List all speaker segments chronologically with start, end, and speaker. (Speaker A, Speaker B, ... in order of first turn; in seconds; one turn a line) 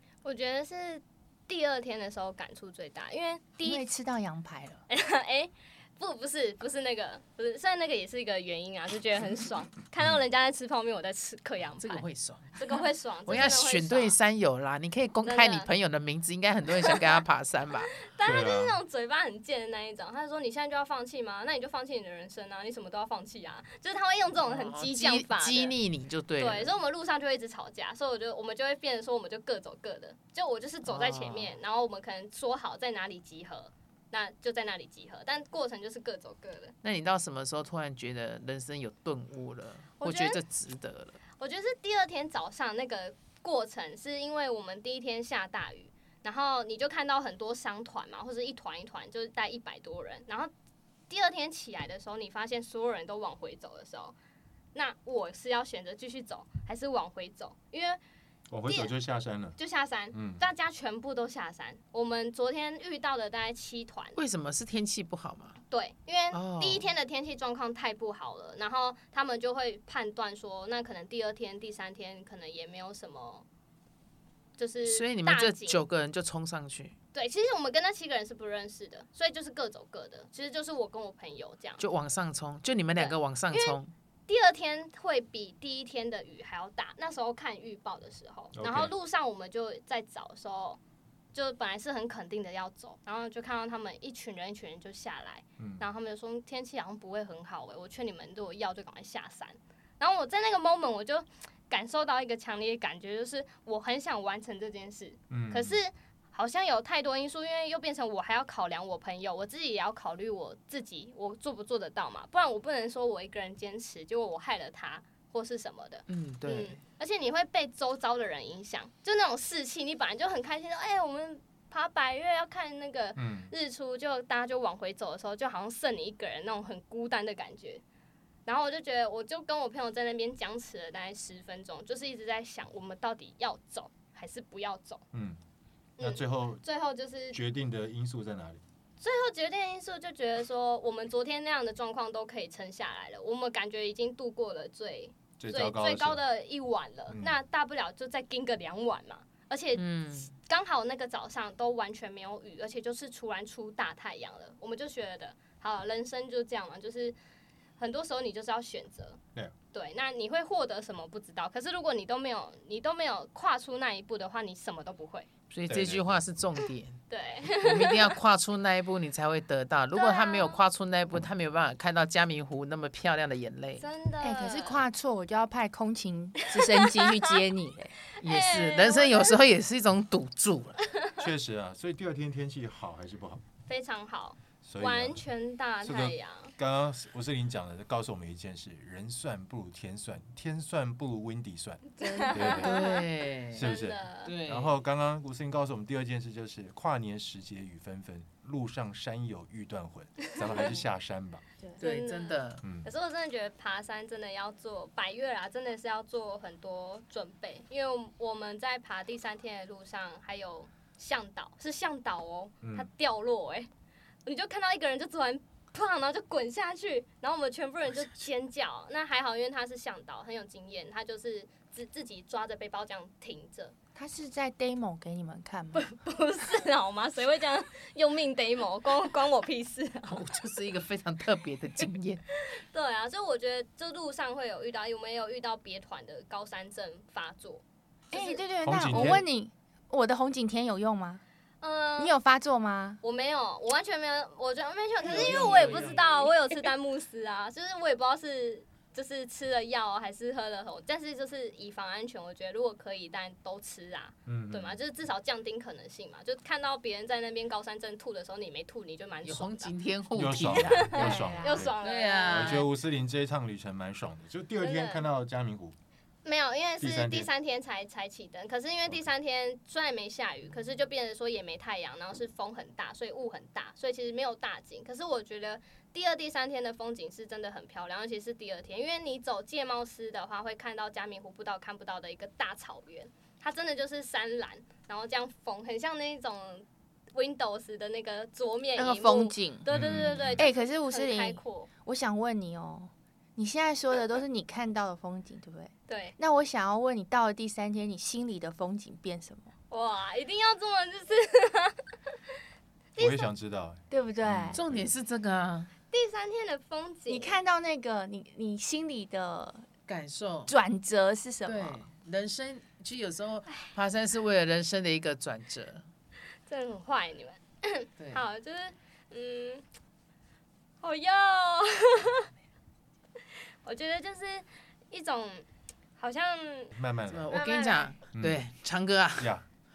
Speaker A: 0.2-3.9
Speaker B: 3.6-4.8
Speaker A: 4.9-12.0
Speaker C: 11.8-17.9
Speaker A: 12.6-14.2
Speaker A: 15.2-15.7
Speaker A: 18.0-25.8
Speaker D: 18.2-18.8
Speaker C: 24.5-26.7
Speaker A: 26.4-36.8
Speaker C: 30.9-31.6
Speaker C: 36.8-41.2
Speaker A: 40.0-40.4
Speaker A: 41.4-50.5
Speaker A: 51.1-54.2
Speaker A: 54.7-58.0
Speaker D: 58.5-59.6
Speaker A: 58.7-58.9
Speaker A: 59.6-64.2
Speaker D: 60.1-60.4
Speaker C: 64.2-65.6
Speaker A: 65.7-73.5
Speaker C: 66.3-66.9
Speaker A: 74.6-75.8
Speaker C: 74.9-77.0
Speaker A: 77.1-81.8
Speaker C: 81.8-83.9
Speaker A: 83.0-83.8
Speaker A: 84.3-90.8
Speaker D: 88.5-88.9
Speaker A: 91.3-127.8
Speaker D: 95.6-95.8
Speaker D: 105.3-105.8
Speaker C: 116.1-116.8
Speaker D: 123.2-123.5
Speaker A: 128.5-135.0
Speaker D: 135.1-135.4
Speaker A: 136.0-137.4
Speaker D: 136.0-136.6
Speaker D: 137.3-138.6
Speaker A: 139.0-157.2
Speaker D: 145.4-146.2
Speaker D: 147.1-147.4
Speaker C: 149.8-150.3
Speaker A: 157.8-159.2
Speaker A: 159.7-165.3
Speaker C: 165.5-173.9
Speaker D: 165.7-166.2
Speaker A: 167.1-168.2
Speaker A: 169.9-170.6
Speaker A: 173.8-174.8
Speaker B: 174.2-178.0
Speaker A: 176.6-177.1
Speaker C: 178.2-180.8
Speaker A: 178.2-179.4
Speaker D: 181.2-183.4
Speaker A: 183.7-186.5
Speaker D: 184.6-185.2
Speaker D: 185.8-192.8
Speaker A: 192.0-193.0
Speaker C: 192.2-193.7
Speaker D: 193.5-201.4
Speaker A: 193.6-194.3
Speaker C: 194.2-194.8
Speaker A: 200.4-200.7
Speaker C: 201.8-202.6
Speaker A: 201.8-213.7
Speaker D: 202.6-202.9
Speaker D: 212.6-212.9
Speaker A: 214.3-223.7
Speaker B: 224.0-225.9
Speaker A: 225.7-230.2
Speaker C: 230.1-232.2
Speaker A: 232.4-239.1
Speaker B: 238.1-241.2
Speaker D: 238.6-239.3
Speaker A: 241.6-242.1
Speaker B: 242.0-243.0
Speaker A: 243.0-259.7
Speaker C: 245.0-246.3
Speaker D: 254.3-254.8
Speaker C: 259.2-261.3
Speaker D: 260.1-261.8
Speaker A: 260.6-262.6
Speaker B: 260.9-261.7
Speaker C: 261.8-262.7
Speaker D: 262.3-265.8
Speaker A: 264.6-265.1
Speaker A: 266.2-291.7
Speaker D: 266.8-267.3
Speaker B: 288.8-289.7
Speaker D: 289.7-290.5
Speaker B: 290.2-299.5
Speaker A: 295.9-296.2
Speaker A: 299.7-301.8
Speaker A: 302.9-303.3
Speaker D: 303.0-304.9
Speaker B: 303.9-304.6
Speaker C: 304.5-305.7
Speaker A: 305.9-307.4
Speaker B: 307.1-309.7
Speaker C: 309.9-310.6
Speaker B: 310.5-311.8
Speaker C: 311.5-315.8
Speaker A: 316.5-319.6
Speaker A: 320.8-322.3
Speaker A: 323.6-325.5
Speaker A: 326.0-326.7
Speaker D: 326.7-327.4
Speaker C: 327.1-329.3
Speaker A: 327.3-327.9
Speaker D: 328.1-328.4
Speaker D: 329.2-329.4